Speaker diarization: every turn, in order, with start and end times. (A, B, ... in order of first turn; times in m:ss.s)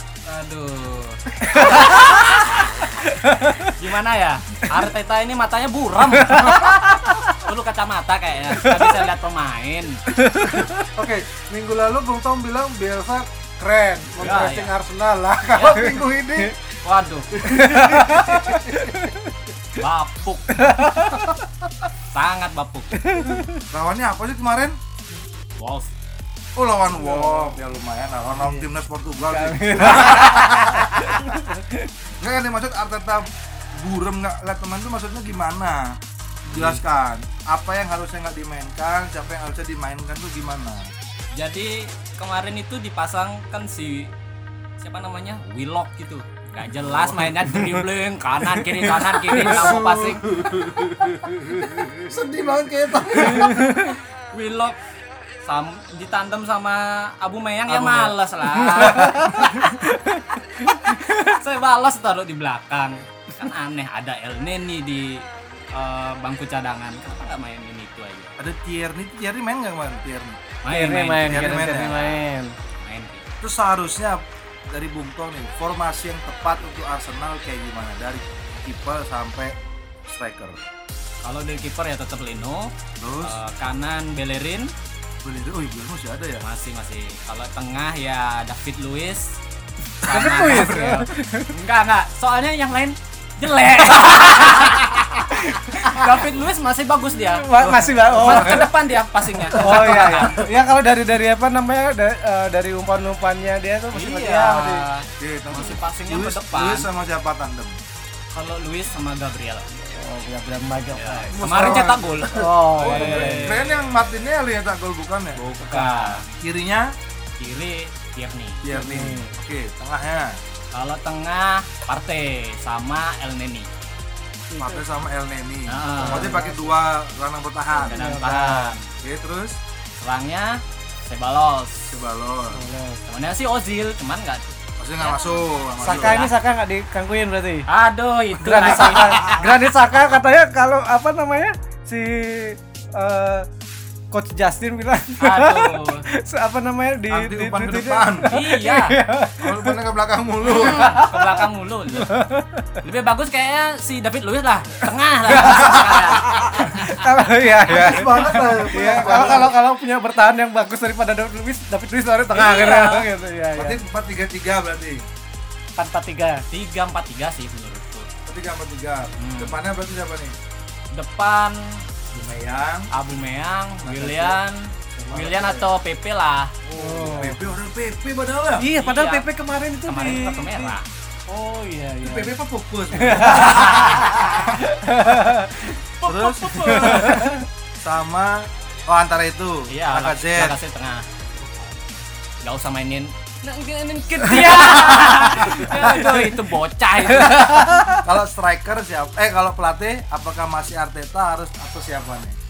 0:00.3-0:02.9 A
0:01.5-0:02.2 B
0:03.0-0:03.7 B
0:03.6-0:10.0 A
0:06.2-0:07.4 B
0:08.6-0:09.1 B
0:10.1-0:10.9 B
0:10.9-0:16.6 C
0:14.2-0:14.7 A
0:15.5-0:16.0 A
0:16.8-0:17.3 A
0:17.3-0:19.1 C
0:17.4-0:19.3 B
0:19.8-0:20.6 A
0:20.5-0:21.4 B
0:22.1-0:23.0 A
0:23.0-0:23.6 B
0:23.7-0:24.8 D
0:25.6-0:25.9 A
0:26.6-0:31.3 D
0:26.9-0:27.6 B
0:29.3-0:31.9 B
0:32.2-0:40.9 D
0:36.5-0:36.8 A
0:41.3-0:44.1 A
0:44.8-0:50.2 A
0:46.8-0:47.4 D
0:48.8-0:49.8 B
0:49.5-0:52.2 C
0:49.6-0:53.7 D
0:53.0-0:53.5 C
0:53.4-0:54.8 A
0:53.5-0:54.0 B
0:55.4-1:08.3 A
0:57.8-0:58.1 D
0:58.6-1:01.2 B
0:58.8-0:59.2 D
1:08.4-1:10.4 D
1:10.6-1:12.2 A
1:10.7-1:12.6 B
1:11.2-1:12.1 D
1:12.8-1:13.2 A
1:13.4-1:19.6 D
1:20.1-1:20.6 D
1:21.2-1:24.7 A
1:23.0-1:23.4 D
1:25.2-1:26.4 D
1:26.4-1:29.3 A
1:30.0-1:30.9 D
1:30.0-1:40.4 A
1:30.1-1:31.5 B
1:35.8-1:36.0 B
1:37.3-1:38.7 B
1:37.6-1:38.7 D
1:39.5-1:44.9 B
1:39.6-1:40.2 D
1:43.9-1:46.9 A
1:45.2-1:47.8 D
1:48.3-1:49.7 A
1:49.8-1:51.4 B
1:51.0-1:54.1 A
1:51.3-1:55.4 D
1:52.3-1:53.6 B
1:55.4-1:56.3 A
1:55.6-1:56.2 B
1:56.4-1:56.9 D
1:57.4-1:58.6 A
1:58.6-2:00.4 D
1:58.7-1:59.4 B
2:00.7-2:03.7 A
2:04.5-2:04.8 B
2:04.6-2:08.1 D
2:05.7-2:06.5 A
2:05.9-2:06.7 B
2:07.8-2:08.9 A
2:07.9-2:08.8 B
2:09.0-2:09.6 D
2:10.0-2:11.9 A
2:11.9-2:12.6 D
2:12.5-2:13.0 B
2:13.1-2:16.3 A
2:14.8-2:16.3 D
2:15.8-2:17.7 B
2:17.7-2:19.5 A
2:18.4-2:23.5 B
2:18.5-2:19.5 D
2:24.1-2:29.8 B
2:25.2-2:26.1 A
2:27.1-2:28.3 D
2:28.3-2:29.0 A
2:29.4-2:30.9 D
2:30.4-2:32.1 A
2:30.5-2:31.5 B
2:32.0-2:32.8 B
2:32.8-2:36.8 A
2:35.3-2:43.8 B
2:37.7-2:39.5 C
2:38.8-2:39.5 D
2:42.4-2:43.0 A
2:43.6-2:45.1 D
2:45.8-2:46.4 B
2:46.5-2:48.1 A
2:48.3-2:50.4 D
2:49.2-2:49.6 A
2:50.9-2:51.8 A
2:52.1-2:52.9 D
2:52.9-2:56.5 A
2:53.8-2:54.4 D
2:54.9-2:55.7 D
2:56.6-2:58.7 D
2:56.8-2:57.4 B
2:58.6-3:00.8 B
2:58.8-2:59.3 A
2:59.9-3:00.9 A
3:01.3-3:02.3 B
3:02.0-3:04.5 D
3:02.9-3:05.7 B
3:03.5-3:04.1 A
3:06.0-3:07.2 A
3:06.0-3:10.6 D
3:06.6-3:07.4 B
3:09.7-3:11.0 A
3:12.4-3:17.8 A
3:14.3-3:16.0 D
3:15.4-3:16.4 B
3:17.0-3:18.0 B
3:18.0-3:22.4 D